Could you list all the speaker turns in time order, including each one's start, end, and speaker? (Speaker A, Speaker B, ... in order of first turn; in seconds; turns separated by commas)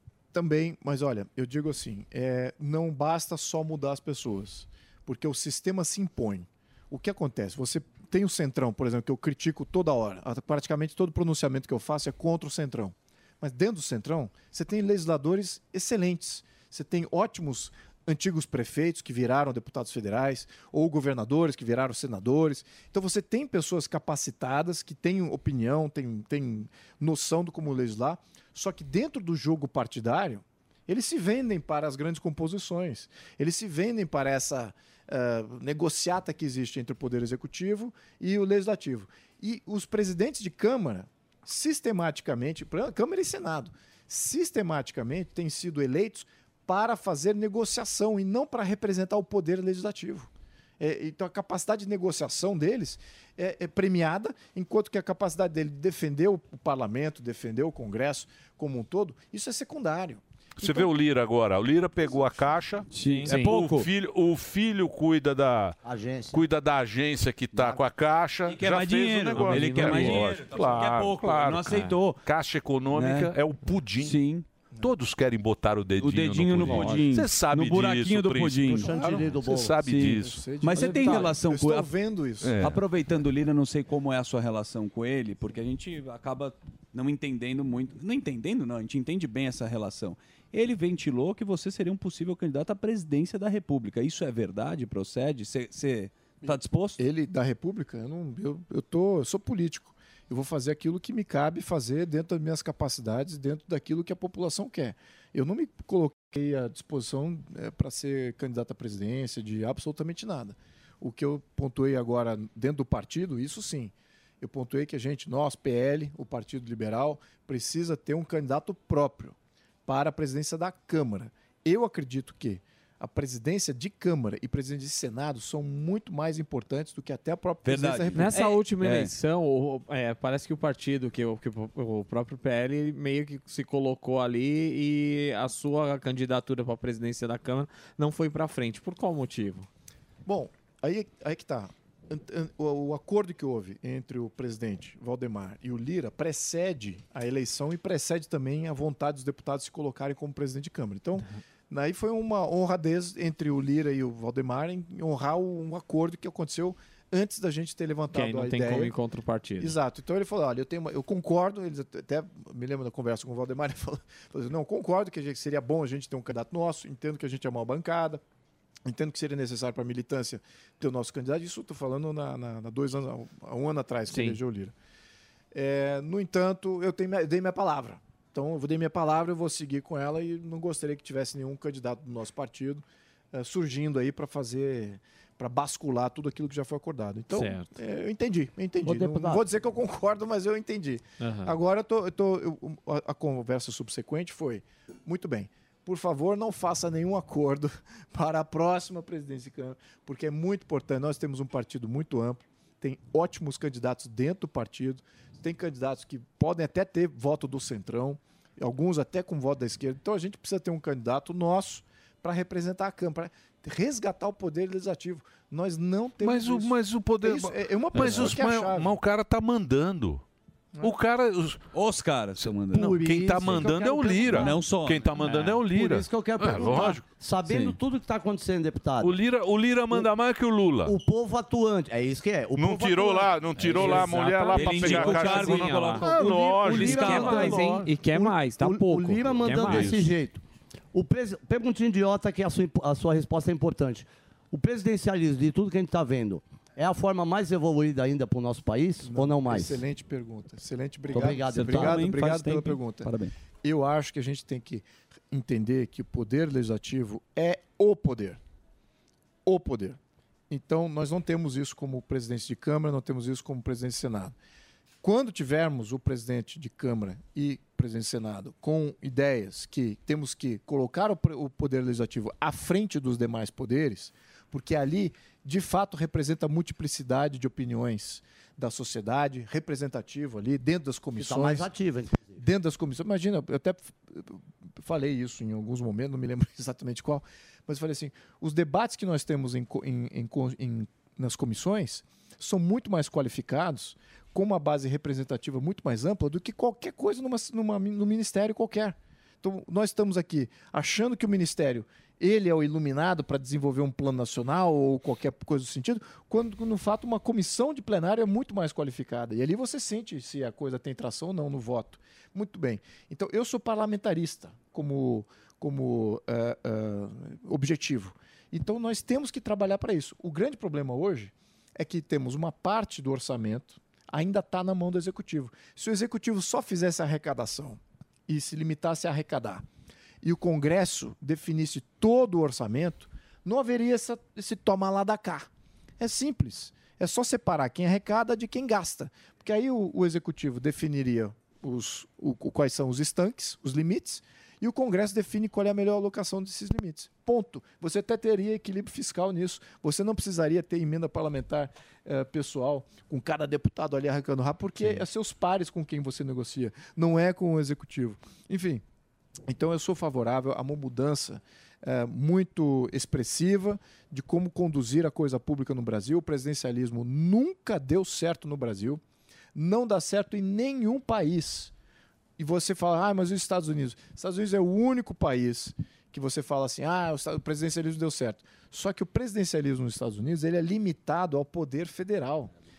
Speaker A: 0.3-60.7, Speaker B: 60.6-65.8, Speaker C: 62.9-63.9, Speaker D: 62.9-63.5, Speaker E: 65.8-66.4, Speaker B: 66.3-74.2, Speaker C: 68.5-72.2, Speaker D: 69.4-70.2, Speaker C: 72.9-73.3, Speaker C: 73.9-74.5, Speaker B: 74.8-80.5, Speaker C: 76.0-79.0, Speaker D: 76.7-77.0, Speaker E: 78.7-79.8, Speaker A: 78.9-79.4, Speaker C: 79.8-81.9, Speaker A: 80.1-82.6, Speaker B: 82.4-82.8, Speaker C: 82.6-97.0, Speaker A: 96.4-119.3, Speaker A: 119.9-128.4, Speaker C: 127.6-129.1, Speaker D: 128.1-139.7, Speaker A: 140.3-158.9, Speaker D: 158.1-159.8, Speaker A: 159.6-168.2, Speaker A: 168.8-174.7, Speaker D: 174.1-174.4, Speaker A: 175.5-218.9, Speaker D: 187.3-187.7, Speaker E: 188.8-189.4, Speaker D: 191.2-191.5, Speaker B: 216.2-220.2, Speaker B: 220.8-221.6, Speaker C: 221.7-223.6, Speaker B: 222.4-227.1, Speaker E: 223.3-224.6, Speaker C: 224.3-225.6, Speaker E: 225.7-229.2, Speaker C: 227.4-227.8, Speaker B: 229.0-230.9, Speaker E: 230.8-234.2, Speaker B: 232.6-237.9, Speaker C: 233.6-237.8, Speaker D: 233.8-236.1, Speaker E: 236.1-237.5, Speaker D: 236.7-240.0, Speaker E: 238.1-240.4, Speaker B: 239.6-240.1, Speaker E: 240.9-249.8, Speaker A: 249.0-253.1, Speaker E: 251.1-252.1, Speaker C: 251.4-253.3, Speaker A: 253.6-258.4, Speaker A: 259.5-260.0, Speaker A: 260.5-264.4, Speaker A: 265.0-281.7, Speaker E: 281.2-282.4, Speaker A: 282.4-329.6, Speaker A: 330.2-335.5, Speaker A: 336.0-358.8, Speaker A: 359.5-369.0, Speaker A: 369.6-371.7, Speaker A: 372.4-382.5